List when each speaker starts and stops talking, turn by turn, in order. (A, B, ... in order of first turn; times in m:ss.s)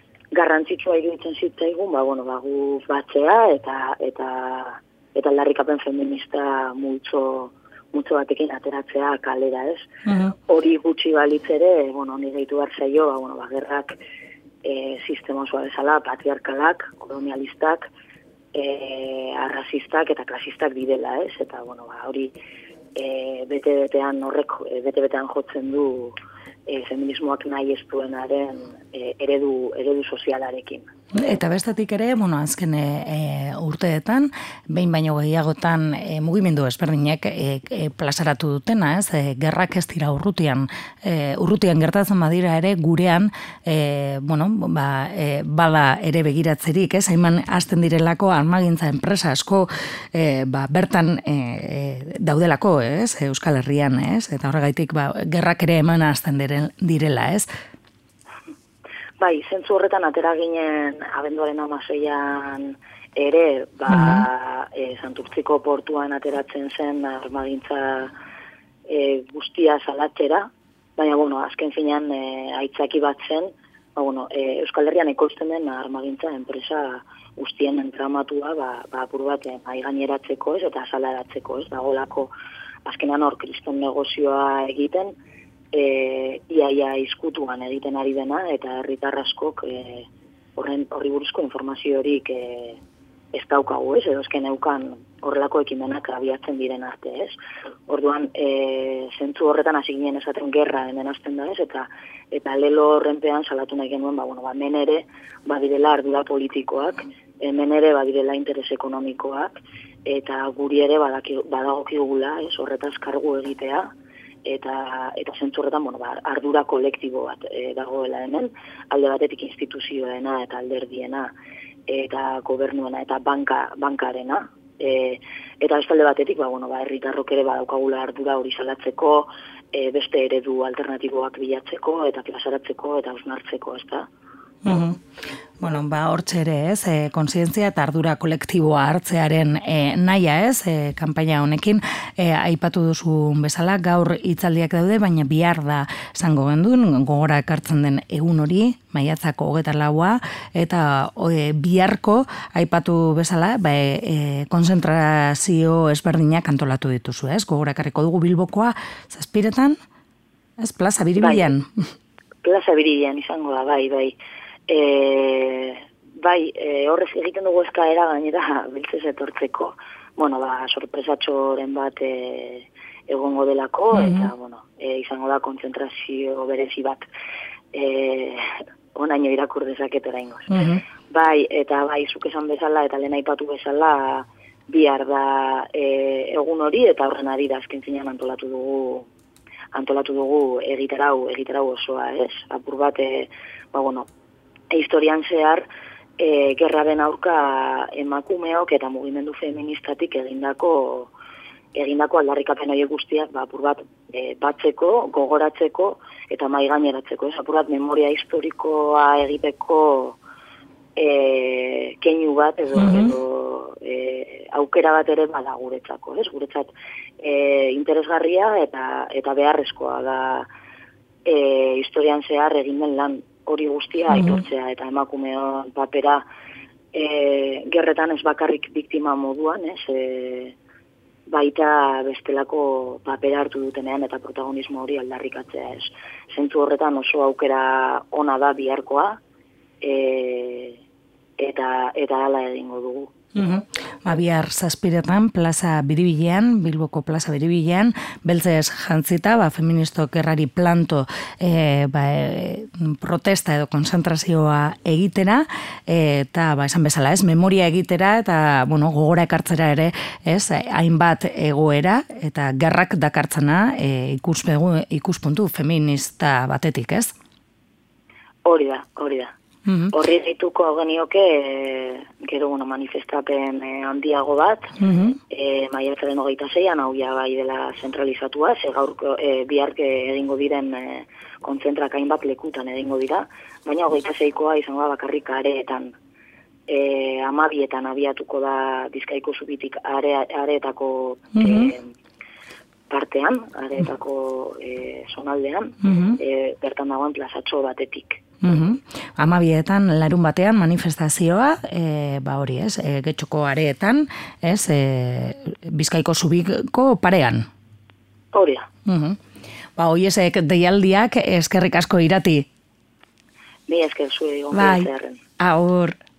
0:00.3-0:14.0 A
0:10.1-0:10.3 B
0:14.6-0:17.9 A
0:18.5-0:22.3 A
0:23.0-0:26.2 A
0:26.7-0:30.9 A
0:31.1-0:57.5 B
0:59.2-1:08.1 A
1:03.9-1:04.2 B
1:08.9-1:22.3 A
1:22.8-1:25.2 A
1:25.7-1:32.8 A
1:33.3-1:53.9 A
1:54.4-2:01.3 A
2:01.9-2:14.1 A
2:14.6-2:15.0 B
2:15.6-2:39.8 B
2:40.6-2:41.8 B
2:41.2-2:41.5 A
2:42.4-2:44.2 A
2:44.7-2:57.1 A
2:54.0-2:54.2 B
2:57.7-3:00.5 A
3:00.5-3:00.8 B
3:01.1-3:09.1 A
3:09.7-3:14.1 A
3:14.7-3:15.7 A
3:16.2-3:21.1 A
3:21.7-3:30.2 A
3:31.0-3:40.5 A
3:32.8-3:33.1 B
3:41.2-3:46.2 A
3:46.9-3:50.6 A
3:51.3-3:59.2 A
3:59.8-4:00.8 A
4:01.4-4:03.1 A
4:03.4-4:27.1 B
4:28.4-4:29.3 A
4:29.7-4:29.9 B
4:29.9-4:34.8 A
4:34.8-4:35.2 B
4:35.3-4:45.9 A
4:46.7-4:51.9 A
4:51.4-4:51.7 B
4:52.9-4:58.2 A
4:55.8-4:56.2 B
4:58.4-5:07.5 B
5:08.3-5:08.7 A
5:08.9-5:09.2 B
5:09.8-5:12.5 B
5:13.7-5:15.2 A
5:14.5-5:14.9 B
5:15.4-5:16.0 B